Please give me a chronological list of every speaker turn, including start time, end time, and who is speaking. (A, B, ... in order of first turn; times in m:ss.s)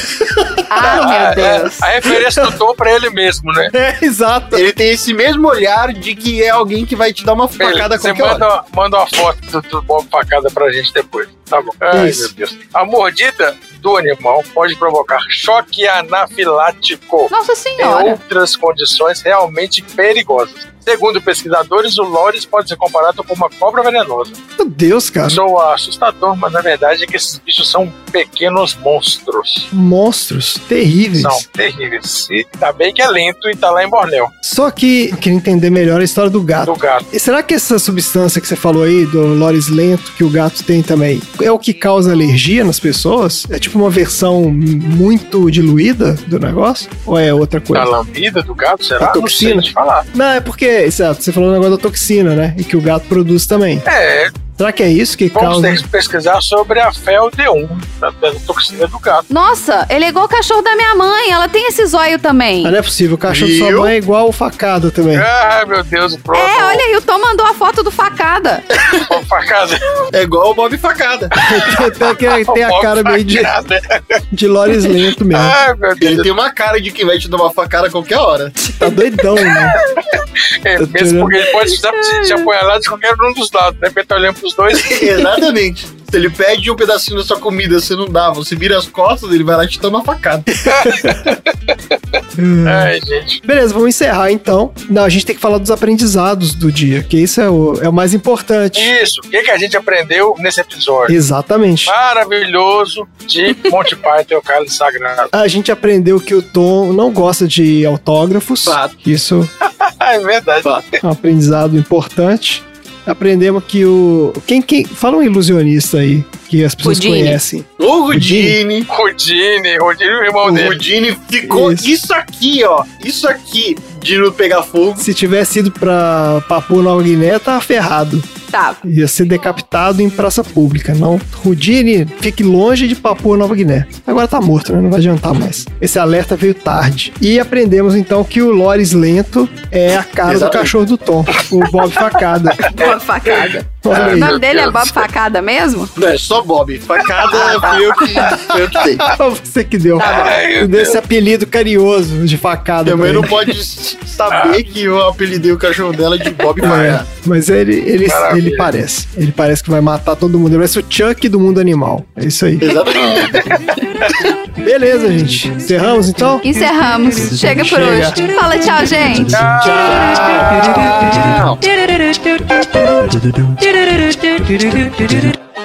0:00.2-0:01.0 A
0:00.7-0:01.9 B
0:00.9-0:03.7 C
0:02.0-0:02.5 A
0:03.7-0:04.6 A
0:04.5-0:08.5 D
0:07.6-0:24.4 C
0:11.9-0:12.3 A
0:17.3-0:18.2 B
0:24.6-0:25.4 A
0:25.3-0:29.7 C
0:29.7-0:31.4 A
0:31.1-0:34.3 C
0:34.4-0:47.9 A
0:36.6-0:37.0 C
0:47.7-0:50.0 C
0:49.0-0:53.8 A
0:53.8-0:54.3 C
0:54.6-0:55.8 A
0:55.3-0:59.3 C
0:59.3-1:02.7 B
1:02.6-1:05.3 A
1:03.3-1:03.9 D
1:05.1-1:06.8 C
1:06.3-1:08.6 B
1:09.0-1:09.9 C
1:10.1-1:11.3 D
1:11.3-1:13.5 A
1:12.5-1:14.2 C
1:14.3-1:15.6 A
1:15.3-1:16.3 C
1:16.0-1:18.7 D
1:18.7-1:19.8 A
1:19.9-1:25.2 C
1:20.8-1:21.4 A
1:24.8-1:30.7 D
1:30.6-1:33.4 C
1:30.9-1:31.3 A
1:32.4-1:32.9 A
1:33.4-1:38.9 A
1:38.7-1:41.1 C
1:41.1-1:41.9 A
1:41.8-1:45.3 C
1:45.3-1:49.5 A
1:48.6-1:48.9 D
1:49.6-1:51.0 C
1:51.0-1:58.6 A
1:56.8-1:57.4 B
1:57.8-1:58.9 D
1:58.9-2:00.8 C
2:00.4-2:05.1 D
2:01.4-2:01.9 A
2:05.0-2:08.3 A
2:08.5-2:08.8 B
2:08.8-2:22.7 A
2:20.2-2:20.7 D
2:21.4-2:25.0 C
2:22.6-2:25.9 B
2:23.8-2:24.4 A
2:26.0-2:29.1 D
2:27.3-2:28.3 C
2:27.3-2:27.8 B
2:28.2-2:33.4 A
2:30.0-2:31.0 C
2:32.8-2:37.0 D
2:34.3-2:34.6 C
2:36.6-2:36.9 C
2:36.6-2:42.8 A
2:38.1-2:38.7 C
2:42.6-2:43.5 D
2:43.1-2:43.4 C
2:44.6-2:46.5 A
2:46.4-2:49.4 B
2:47.3-2:48.3 A
2:49.3-2:50.8 C
2:49.3-2:51.2 A
2:49.8-2:51.6 D
2:51.9-2:52.2 B
2:53.6-2:54.8 B